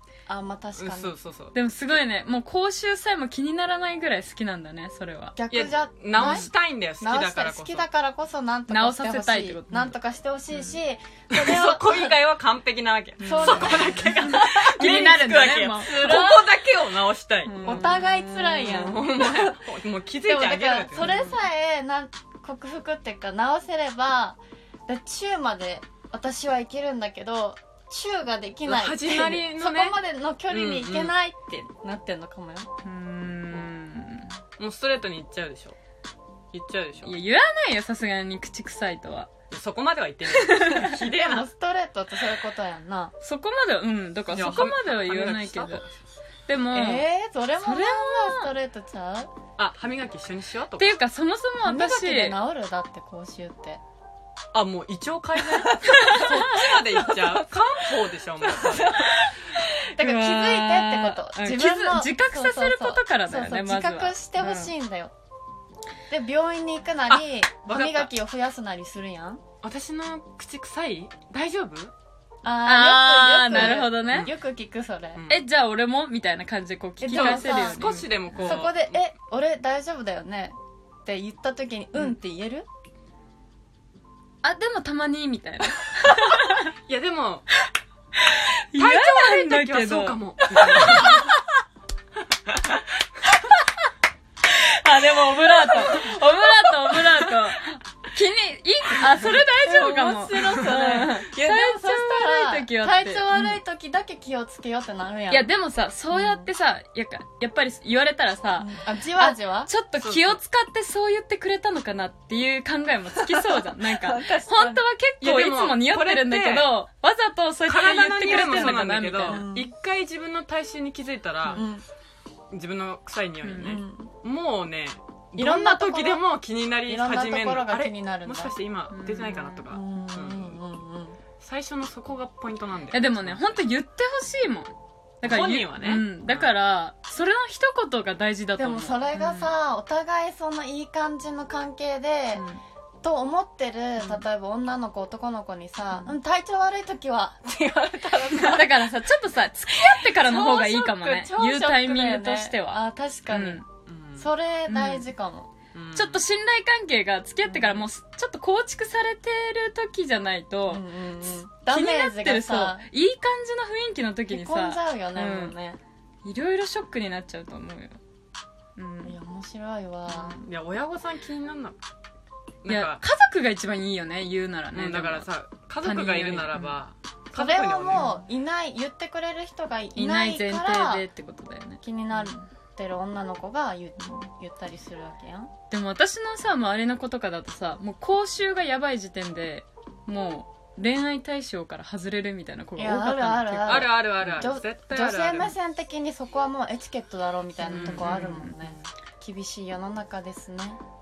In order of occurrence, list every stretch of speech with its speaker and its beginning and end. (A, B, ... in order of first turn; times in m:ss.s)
0:00.3-0:01.1 A
0:00.8-0:01.5 B
0:01.5-0:05.4 C
0:05.4-0:06.5 A
0:05.5-0:07.9 B
0:06.2-0:06.5 C
0:07.0-0:12.1 A
0:08.7-0:09.9 C
0:11.3-0:18.0 B
0:13.2-0:16.3 C
0:13.2-0:14.1 A
0:16.0-0:16.4 A
0:17.4-0:18.9 C
0:17.6-0:19.6 A
0:18.5-0:21.1 B
0:20.2-0:32.7 A
0:20.9-0:21.4 C
0:28.6-0:31.1 B
0:32.8-0:34.3 C
0:34.6-0:35.8 B
0:36.5-0:37.1 B
0:37.0-0:39.3 C
0:39.5-0:41.5 B
0:40.3-0:40.9 C
0:40.9-0:43.1 A
0:43.2-0:45.8 C
0:44.3-0:45.9 B
0:46.5-0:47.0 C
0:46.7-0:49.3 A
0:47.6-0:48.5 C
0:49.6-0:51.0 B
0:50.8-0:52.4 C
0:51.6-0:53.8 A
0:54.5-0:59.2 B
0:55.9-0:56.6 C
0:58.6-1:05.1 A
0:59.6-1:04.7 C
1:06.1-1:09.4 A
1:07.1-1:08.1 B
1:09.6-1:11.9 B
1:12.4-1:15.2 A
1:12.6-1:14.3 C
1:13.5-1:14.3 B
1:15.2-1:15.4 B
1:15.3-1:18.7 C
1:17.0-1:22.7 A
1:17.1-1:19.0 B
1:24.4-1:26.7 C
1:26.9-1:27.5 B
1:28.3-1:31.3 C
1:28.8-1:31.3 B
1:34.4-1:43.6 C
1:39.3-1:45.5 A
1:45.3-1:59.5 C
1:46.1-1:46.5 A
1:48.6-1:49.7 A
1:50.0-1:50.4 B
1:53.1-1:54.8 A
1:55.2-1:56.7 B
1:57.6-2:01.6 B
1:58.2-1:59.7 A
2:01.5-2:01.8 A
2:02.5-2:10.6 B
2:03.4-2:03.8 C
2:03.6-2:04.1 A
2:05.4-2:06.2 A
2:06.8-2:08.6 A
2:08.9-2:09.7 C
2:09.7-2:11.2 A
2:11.4-2:13.6 B
2:12.9-2:19.5 C
2:15.2-2:16.5 B
2:18.6-2:22.4 A
2:22.3-2:22.6 C
2:23.0-2:28.9 A
2:25.9-2:26.1 C
2:28.4-2:33.6 C
2:29.7-2:33.6 A
2:33.8-2:34.3 B
2:34.2-2:35.5 A
2:34.7-2:35.1 C
2:35.7-2:36.2 B
2:35.9-2:40.8 C
2:37.4-2:37.8 A
2:40.7-2:42.9 A
2:41.6-2:45.6 C
2:44.3-2:45.8 A
2:46.2-2:48.0 C
2:48.8-2:49.2 C
2:49.0-2:50.4 A
2:50.1-2:50.4 C
2:50.4-2:51.8 B
2:52.6-2:53.0 B
2:52.6-2:55.3 C
2:54.7-2:58.1 B
2:55.8-2:56.8 C
2:57.3-3:01.1 A
2:57.9-2:58.2 C
3:00.0-3:02.4 C
3:01.8-3:05.5 A
3:05.7-3:14.6 C
3:12.8-3:20.8 A
3:13.7-3:15.5 B
3:17.6-3:18.5 C
3:17.7-3:18.8 B